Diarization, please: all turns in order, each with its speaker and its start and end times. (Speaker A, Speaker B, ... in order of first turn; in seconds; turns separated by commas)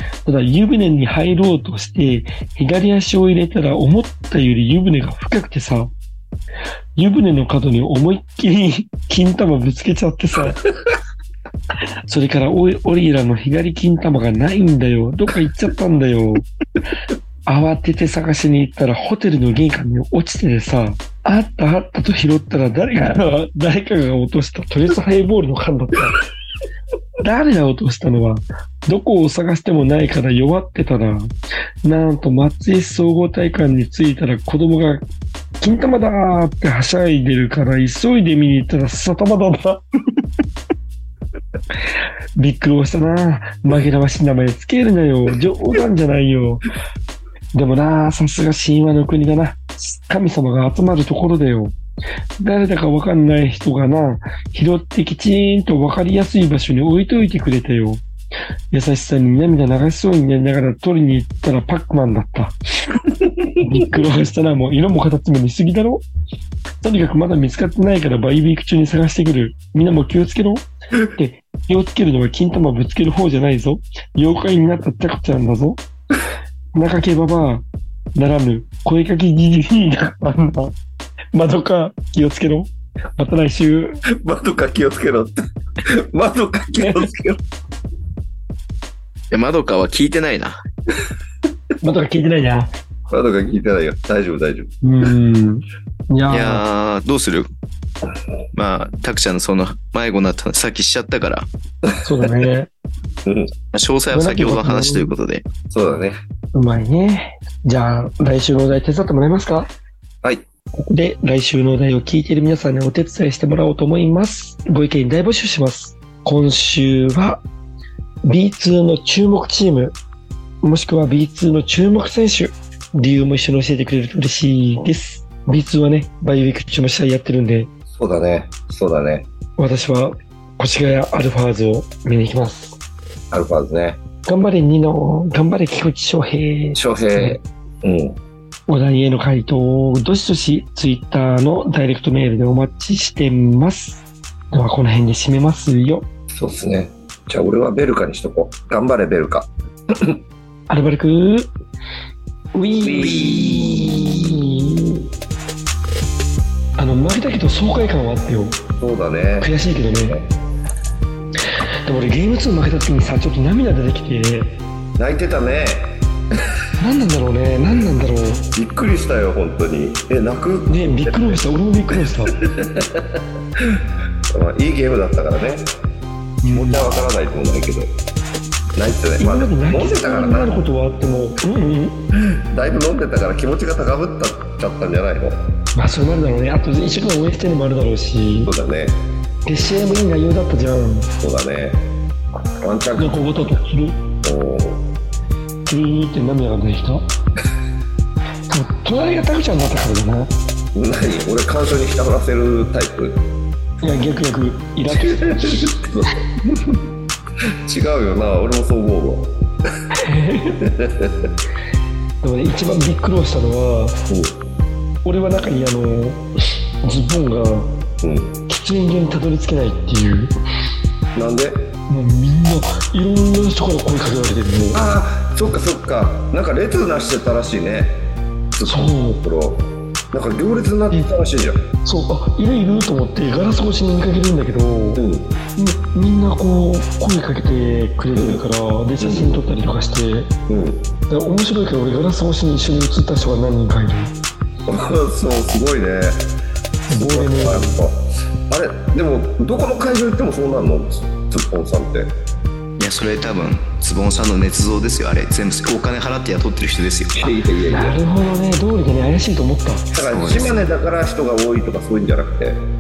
Speaker A: 0.2-5.9, Speaker A: 7.0-10.6, Speaker B: 10.6-10.9, Speaker A: 12.1-16.5, Speaker A: 17.5-26.2, Speaker A: 27.2-31.3, Speaker A: 31.8-35.0, Speaker A: 35.6-39.8, Speaker A: 42.4-46.6, Speaker A: 47.5-51.7, Speaker A: 52.4-58.0, Speaker A: 58.7-63.0, Speaker A: 63.5-66.0, Speaker A: 66.8-75.8, Speaker A: 76.7-80.7, Speaker A: 81.3-84.0, Speaker B: 84.2-87.4, Speaker A: 86.8-87.1, Speaker C: 89.3-90.6, Speaker A: 91.8-92.7, Speaker B: 93.1-94.7, Speaker A: 94.8-96.6, Speaker C: 96.3-97.5, Speaker C: 98.5-101.5, Speaker B: 101.8-102.3, Speaker A: 102.0-102.7, Speaker B: 103.2-103.5, Speaker C: 103.7-105.4, Speaker A: 104.1-105.1, Speaker B: 105.7-106.2, Speaker A: 106.5-109.7, Speaker A: 110.7-117.4, Speaker A: 118.2-119.9, Speaker A: 120.6-127.7, Speaker B: 127.9-129.3, Speaker A: 129.6-132.8, Speaker B: 133.3-134.0, Speaker A: 134.2-137.4, Speaker B: 136.8-138.2, Speaker A: 138.7-146.1, Speaker B: 146.3-150.2, Speaker A: 150.7-151.5, Speaker A: 152.5-155.0, Speaker B: 152.8-153.9, Speaker A: 156.8-158.6, Speaker B: 158.8-159.5, Speaker A: 159.4-160.2, Speaker B: 160.0-160.3, Speaker A: 161.8-164.6, Speaker B: 165.0-166.0, Speaker A: 166.8-168.4, Speaker B: 168.5-171.4, Speaker A: 170.7-172.3, Speaker B: 172.3-173.8, Speaker B: 174.3-175.7, Speaker A: 176.4-176.8, Speaker B: 176.5-177.9, Speaker B: 178.7-180.6, Speaker A: 179.2-182.0, Speaker B: 182.2-185.4, Speaker A: 185.7-188.5, Speaker B: 188.4-189.0, Speaker A: 189.4-191.1, Speaker B: 191.2-191.8, Speaker B: 192.6-193.6, Speaker A: 193.0-194.0, Speaker B: 194.2-194.8, Speaker A: 195.7-197.1, Speaker A: 198.5-200.3, Speaker B: 200.7-203.2, Speaker A: 203.8-205.7, Speaker B: 204.9-206.6, Speaker B: 207.5-209.3, Speaker A: 210.0-210.7, Speaker B: 210.6-211.3, Speaker A: 212.2-214.0, Speaker B: 214.1-214.3, Speaker A: 215.0-216.3, Speaker A: 216.8-217.8, Speaker B: 218.0-218.4, Speaker A: 218.5-220.3, Speaker B: 221.1-221.6, Speaker A: 221.9-224.8, Speaker B: 224.7-228.0, Speaker B: 228.6-231.6, Speaker A: 228.6-229.2, Speaker A: 231.8-235.0, Speaker B: 234.9-235.3, Speaker A: 235.6-240.3, Speaker B: 238.1-238.4, Speaker B: 239.0-239.4, Speaker B: 240.5-240.9, Speaker A: 241.1-244.1, Speaker B: 244.7-246.2, Speaker A: 246.9-247.8, Speaker B: 246.9-252.1, Speaker C: 252.8-257.3, Speaker B: 257.1-258.0, Speaker A: 257.7-259.9, Speaker B: 259.9-262.6, Speaker C: 260.1-260.6